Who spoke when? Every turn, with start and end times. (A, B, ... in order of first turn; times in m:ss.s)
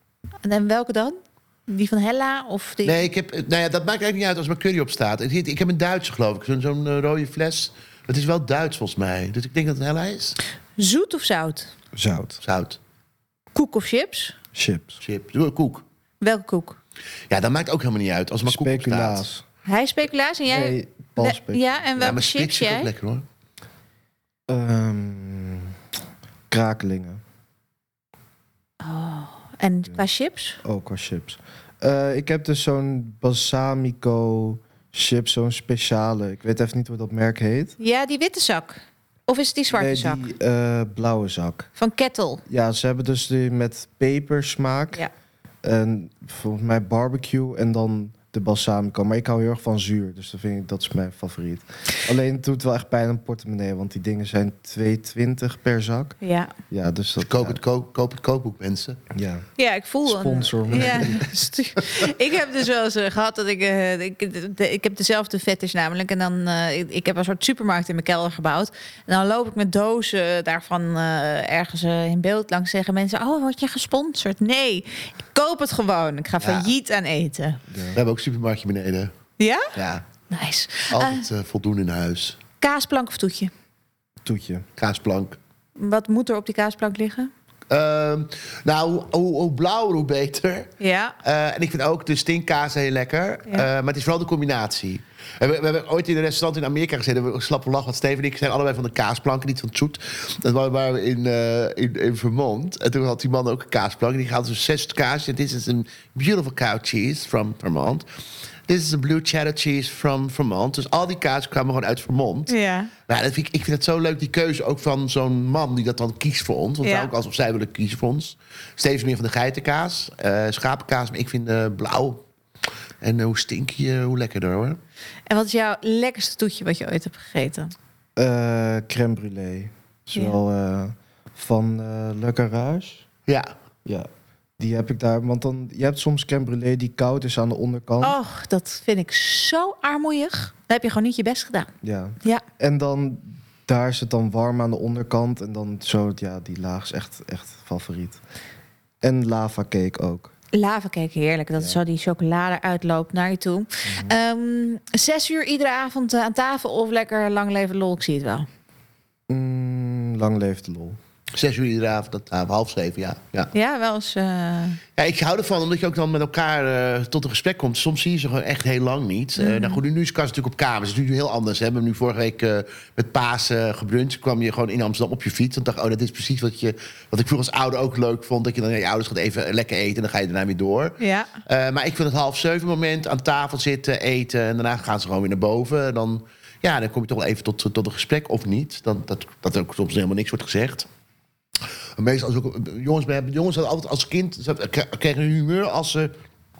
0:00.4-0:03.1 A
0:02.8-0:10.4 B
0:10.8-0:11.7 A
0:11.9-0:12.4 C
0:12.4-0:12.8 B
0:13.5-0:14.3 A
0:14.5-0:15.0 C
0:15.0-0:15.8 B
0:16.2-0:16.8 A
0:17.3-0:19.2 B
0:18.4-0:19.4 C
0:19.6-0:22.9 A
0:20.5-0:22.1 C
0:22.0-0:23.2 B
0:24.5-0:25.8 C
0:26.5-0:27.2 C
0:28.8-0:30.6 A
0:30.6-0:37.8 C
0:37.8-0:40.2 A
0:39.7-0:41.7 C
0:41.8-0:42.4 A
0:42.5-0:45.0 C
0:45.6-0:56.2 C
0:56.2-0:56.5 A
0:56.7-0:57.6 C
0:57.2-0:59.0 B
0:59.1-0:59.4 C
0:59.6-1:17.6 A
1:00.0-1:01.3 C
1:16.4-1:16.7 B
1:17.7-1:18.0 C
1:17.9-1:19.1 B
1:19.4-1:19.7 A
1:19.7-1:20.0 B
1:20.3-1:21.2 A
1:20.9-1:22.4 B
1:22.6-1:23.5 A
1:24.2-1:24.6 C
1:24.8-1:25.4 B
1:25.8-1:27.3 A
1:27.7-1:30.7 B
1:30.8-1:31.1 A
1:31.2-1:48.0 B
1:48.7-1:52.5 B
1:52.5-1:52.9 A
1:53.1-2:02.2 B
1:56.8-1:57.1 A
2:03.0-2:04.8 B
2:05.3-2:07.7 A
2:08.2-2:13.0 C
2:14.6-2:18.2 C
2:18.0-2:21.7 A
2:21.8-2:28.2 C
2:29.0-2:30.3 C
2:30.5-2:38.5 A
2:33.8-2:34.2 C
2:39.3-2:41.0 C
2:41.3-2:43.5 B
2:43.5-2:44.8 A
2:45.0-3:10.8 B
2:49.4-2:49.8 A
3:01.0-3:01.3 A
3:12.0-3:16.1 B